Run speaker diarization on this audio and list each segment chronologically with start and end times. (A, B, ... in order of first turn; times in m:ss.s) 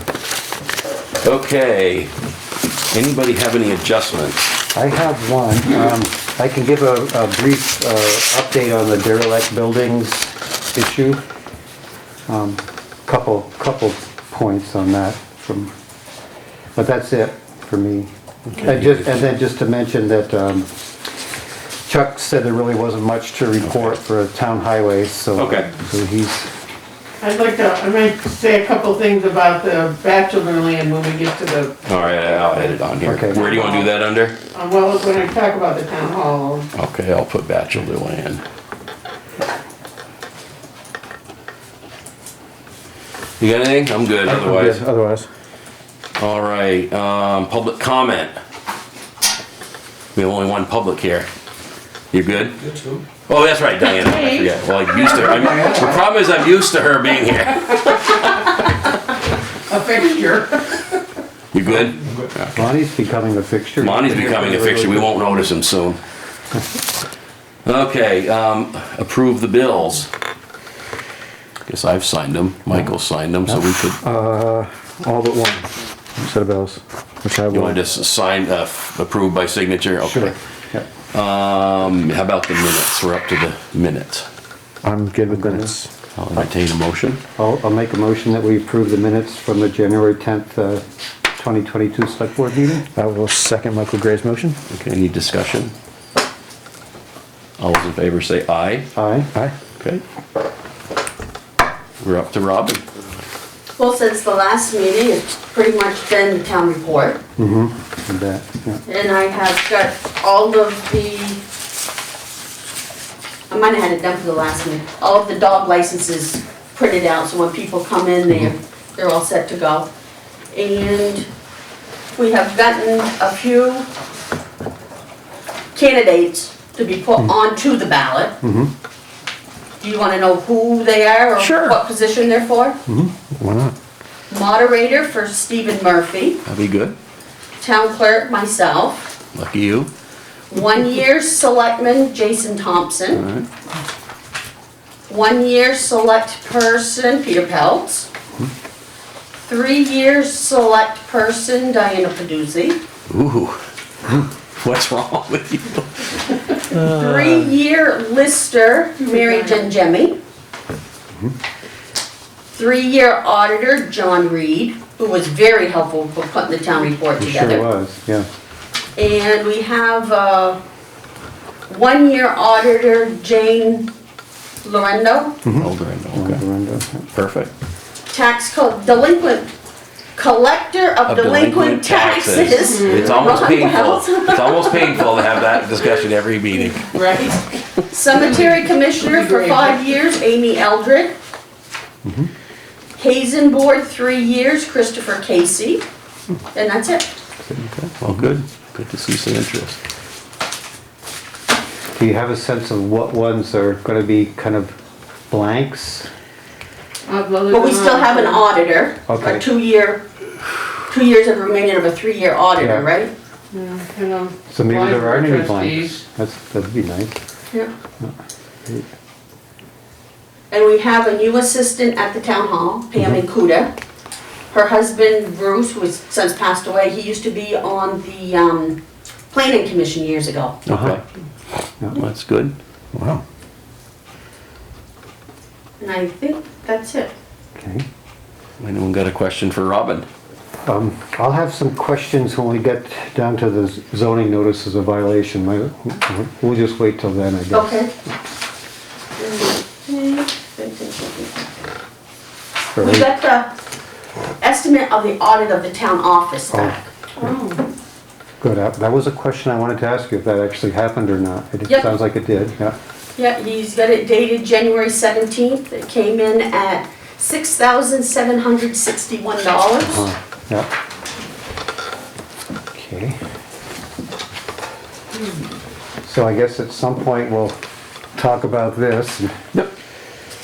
0:01.2-0:02.1 A
0:02.9-0:04.4 A
0:04.7-0:11.2 B
0:12.3-0:15.7 B
0:16.7-0:20.7 B
0:21.9-0:26.5 B
0:23.6-0:23.9 A
0:25.4-0:25.7 A
0:27.2-0:32.4 C
0:31.8-0:34.4 A
0:33.0-0:33.5 B
0:33.3-0:33.9 C
0:34.5-0:36.7 C
0:36.7-0:38.4 A
0:43.4-0:44.8 A
0:44.3-0:45.2 D
0:46.2-0:48.3 A
0:50.1-0:51.3 A
0:52.1-0:58.5 A
0:55.0-0:55.9 C
0:59.7-1:01.0 C
1:01.5-1:02.6 A
1:02.5-1:05.3 B
1:03.8-1:06.0 A
1:07.6-1:10.1 A
1:11.7-1:14.0 A
1:14.3-1:15.6 D
1:16.3-1:17.8 D
1:17.5-1:20.4 A
1:20.0-1:20.9 B
1:21.1-1:24.2 A
1:24.8-1:25.9 D
1:25.3-1:25.7 B
1:26.1-1:27.2 A
1:27.4-1:30.8 B
1:31.3-1:32.8 B
1:33.0-1:34.6 D
1:34.7-1:35.7 A
1:37.6-1:38.9 A
1:38.9-1:39.3 B
1:42.0-1:42.8 A
1:43.8-1:47.2 E
1:47.4-1:48.8 B
1:48.8-1:51.4 E
1:53.5-1:59.9 E
2:00.5-2:01.2 E
2:02.1-2:03.9 E
2:05.7-2:08.4 E
2:08.4-2:08.7 B
2:09.8-2:12.8 E
2:11.4-2:11.8 A
2:12.9-2:13.1 B
2:14.3-2:16.4 E
2:16.4-2:17.0 A
2:17.6-2:19.1 E
2:19.3-2:19.9 A
2:20.5-2:23.2 E
2:23.1-2:23.5 A
2:25.1-2:28.1 E
2:29.4-2:32.8 E
2:33.1-2:33.6 A
2:34.6-2:36.9 A
2:36.7-2:40.2 E
2:39.1-2:39.6 C
2:42.5-2:47.7 E
2:47.2-2:48.3 B
2:49.0-2:50.6 E
2:51.7-2:53.9 E
2:54.6-2:55.4 E
2:55.4-2:57.1 B
2:55.6-2:56.4 A
2:57.1-2:57.5 A
2:58.1-2:59.5 E
3:00.2-3:05.6 E
3:01.0-3:06.9 A
3:02.6-3:03.4 C
3:06.9-3:07.3 E
3:07.9-3:11.2 E
3:08.1-3:09.8 C
3:12.0-3:12.3 B
3:13.0-3:15.8 E
3:16.5-3:17.1 E
3:17.4-3:18.3 B
3:17.6-3:19.8 A
3:21.9-3:24.8 B
3:25.3-3:26.1 B
3:27.0-3:28.4 C
3:27.5-3:30.0 E
3:29.1-3:29.4 B
3:30.9-3:33.1 E
3:32.6-3:32.8 B
3:33.5-3:36.0 C
3:34.5-3:37.2 B
3:40.5-3:43.7 E
3:44.5-3:48.8 E
3:49.3-3:50.6 E
3:50.6-3:51.0 A
3:50.7-3:51.0 B
3:51.9-3:52.5 A
3:55.8-3:57.1 E
3:57.6-3:57.8 B
3:58.6-4:00.1 A
4:00.6-4:07.8 B
4:07.5-4:07.9 E
4:09.2-4:11.4 E
4:12.7-4:13.1 B
4:12.8-4:13.5 E
4:14.4-4:16.9 E
4:16.5-4:16.8 B
4:17.2-4:17.6 C
4:18.4-4:22.8 B
4:23.2-4:30.1 E
4:29.8-4:30.7 B
4:32.7-4:33.2 B
4:36.0-4:37.6 B
4:38.1-4:39.6 B